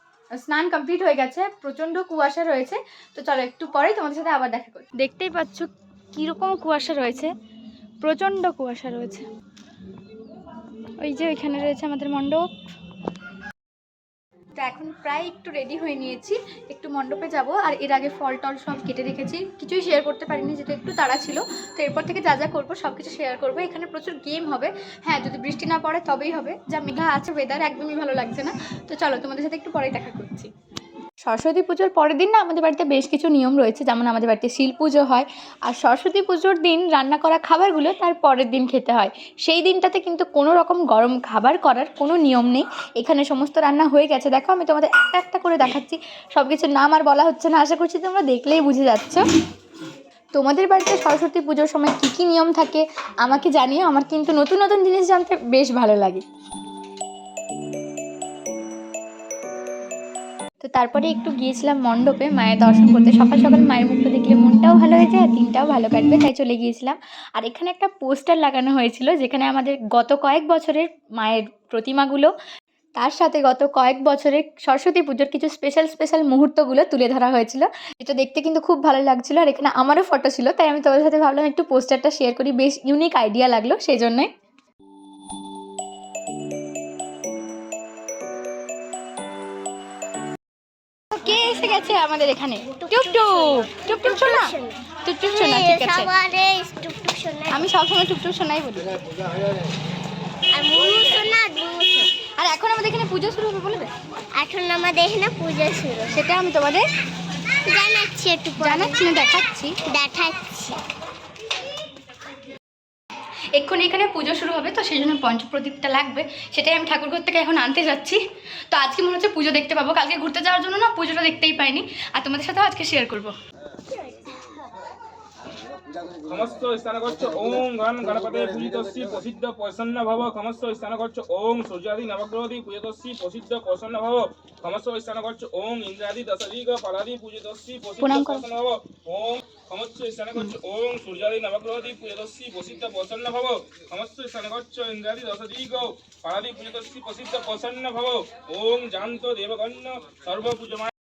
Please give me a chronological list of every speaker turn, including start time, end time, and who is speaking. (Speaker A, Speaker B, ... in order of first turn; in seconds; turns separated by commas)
Speaker A: 0.3-7.3, Speaker A: 8.0-9.3, Speaker A: 11.0-12.5, Speaker A: 14.6-30.5, Speaker A: 31.2-49.2, Speaker A: 50.4-56.2, Speaker A: 60.6-72.3, Speaker A: 73.0-84.3, Speaker A: 91.1-96.1, Speaker B: 92.8-94.8, Speaker B: 95.3-97.7, Speaker A: 97.5-99.0, Speaker B: 100.5-102.1, Speaker A: 102.3-103.9, Speaker B: 104.4-106.2, Speaker A: 106.1-106.9, Speaker B: 107.7-109.0, Speaker A: 108.6-109.8, Speaker B: 109.9-110.8, Speaker A: 113.5-123.4, Speaker C: 126.3-150.9, Speaker A: 138.0-138.5